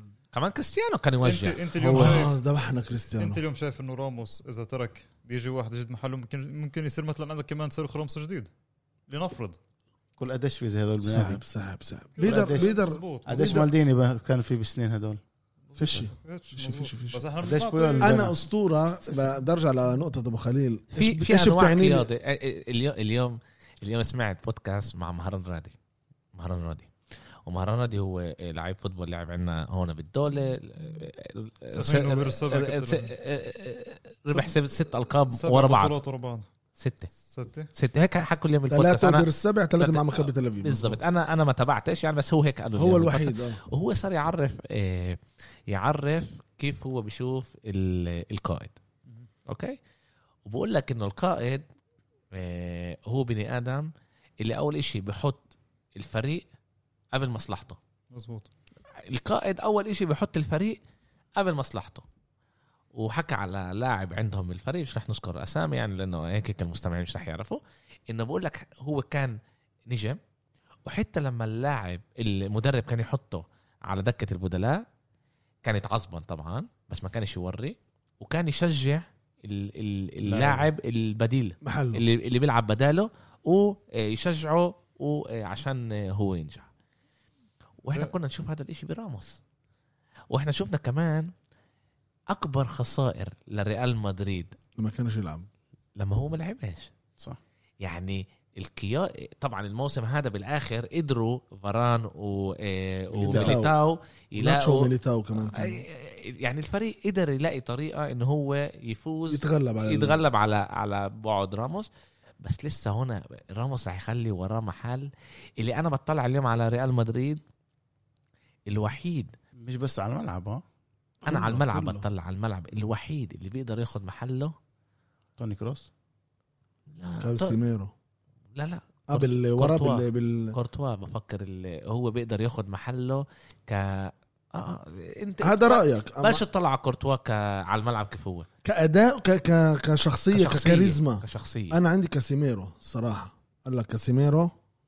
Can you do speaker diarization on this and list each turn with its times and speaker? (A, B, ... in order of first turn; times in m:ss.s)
0:00.3-0:02.2 A
0:01.2-0:02.4 B
0:01.8-0:03.4 C
0:03.2-0:08.5 B
0:09.1-0:09.6 B
0:10.2-0:11.4 D
0:11.0-0:13.7 C
0:12.2-0:13.6 B
0:12.2-0:12.7 D
0:13.2-0:15.2 D
0:15.7-0:18.3 B
0:15.8-0:17.2 C
0:17.4-0:18.3 D
0:18.0-0:22.1 C
0:20.9-0:25.7 A
0:26.3-0:26.9 A
0:27.4-0:36.0 A
0:31.7-0:33.1 B
0:35.3-0:36.4 B
0:36.8-0:37.1 A
0:37.2-0:37.7 B
0:37.7-0:48.8 A
0:38.7-0:41.0 C
0:42.8-0:43.6 C
0:49.5-0:49.8 A
0:50.4-0:51.6 A
0:52.3-0:56.4 A
0:57.1-0:57.8 A
0:58.1-0:58.5 B
0:59.0-1:00.8 A
1:01.4-1:02.0 A
1:02.9-1:10.2 A
1:10.8-1:14.8 A
1:15.6-1:26.7 A
1:20.2-1:20.6 D
1:21.6-1:22.0 C
1:27.8-1:29.4 A
1:30.3-1:31.3 A
1:32.3-1:34.6 A
1:34.8-1:35.5 C
1:36.0-1:36.9 A
1:37.8-1:51.9 A
1:43.1-1:43.7 C
1:43.2-1:43.6 D
1:44.4-1:45.8 C
1:49.3-1:50.2 C
1:52.4-1:57.4 A
1:58.7-1:59.3 A
1:59.6-2:00.6 D
2:01.2-2:02.0 C
2:01.2-2:04.5 A
2:05.4-2:05.9 D
2:06.9-2:07.6 A
2:07.2-2:07.9 C
2:08.5-2:18.5 A
2:09.1-2:10.6 C
2:15.4-2:16.4 C
2:18.6-2:24.5 C
2:20.3-2:21.8 A